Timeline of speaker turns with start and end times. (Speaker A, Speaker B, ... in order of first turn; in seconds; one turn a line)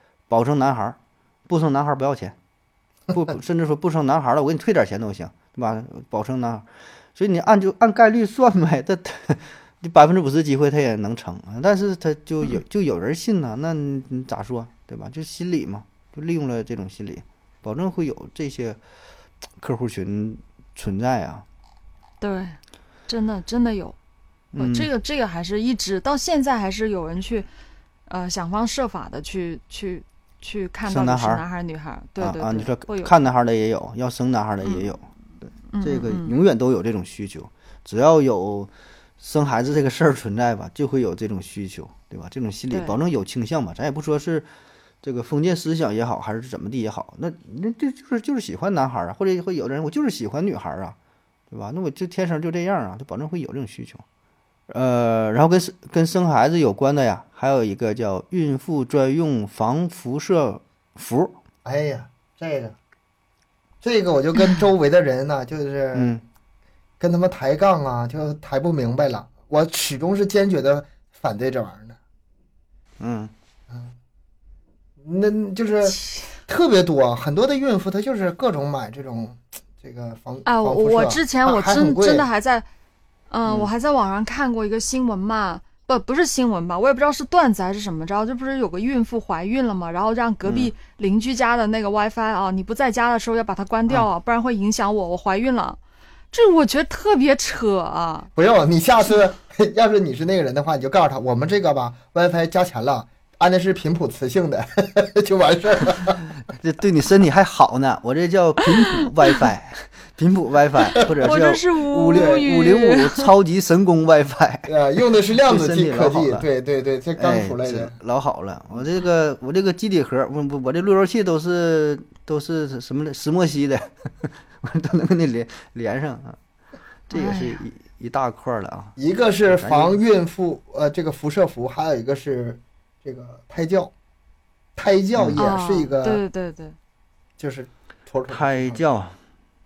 Speaker A: 0.3-1.0
Speaker A: 1.5-2.3
Speaker A: 3.1-6.6
Speaker A: 7.2-18.8
Speaker A: 19.6-21.4
Speaker B: 22.2-23.9
Speaker A: 24.5-24.9
Speaker B: 24.6-27.5
Speaker B: 28.1-33.1
Speaker A: 30.9-31.4
Speaker A: 32.2-35.0
Speaker B: 34.6-34.9
Speaker B: 35.7-36.3
Speaker A: 35.8-44.5
Speaker B: 42.7-43.0
Speaker A: 45.0-51.0
Speaker A: 51.5-54.0
Speaker A: 54.7-61.3
Speaker C: 61.6-62.8
Speaker C: 63.8-66.1
Speaker A: 65.9-66.2
Speaker C: 67.0-72.0
Speaker A: 73.0-73.3
Speaker C: 73.7-73.9
Speaker C: 75.0-82.2
Speaker B: 80.4-82.7
Speaker B: 83.3-95.8
Speaker A: 90.4-90.7
Speaker B: 96.3-98.3
Speaker C: 98.3-106.3
Speaker A: 106.5-114.7
Speaker B: 110.9-113.2
Speaker C: 112.1-112.4
Speaker C: 114.7-117.9
Speaker A: 115.3-116.5
Speaker A: 117.2-126.4
Speaker A: 127.1-128.9
Speaker B: 127.1-127.6
Speaker C: 129.0-133.9
Speaker A: 129.5-129.9
Speaker C: 134.8-136.2
Speaker A: 135.2-135.4
Speaker B: 135.4-136.8
Speaker C: 137.4-138.8
Speaker A: 138.3-139.1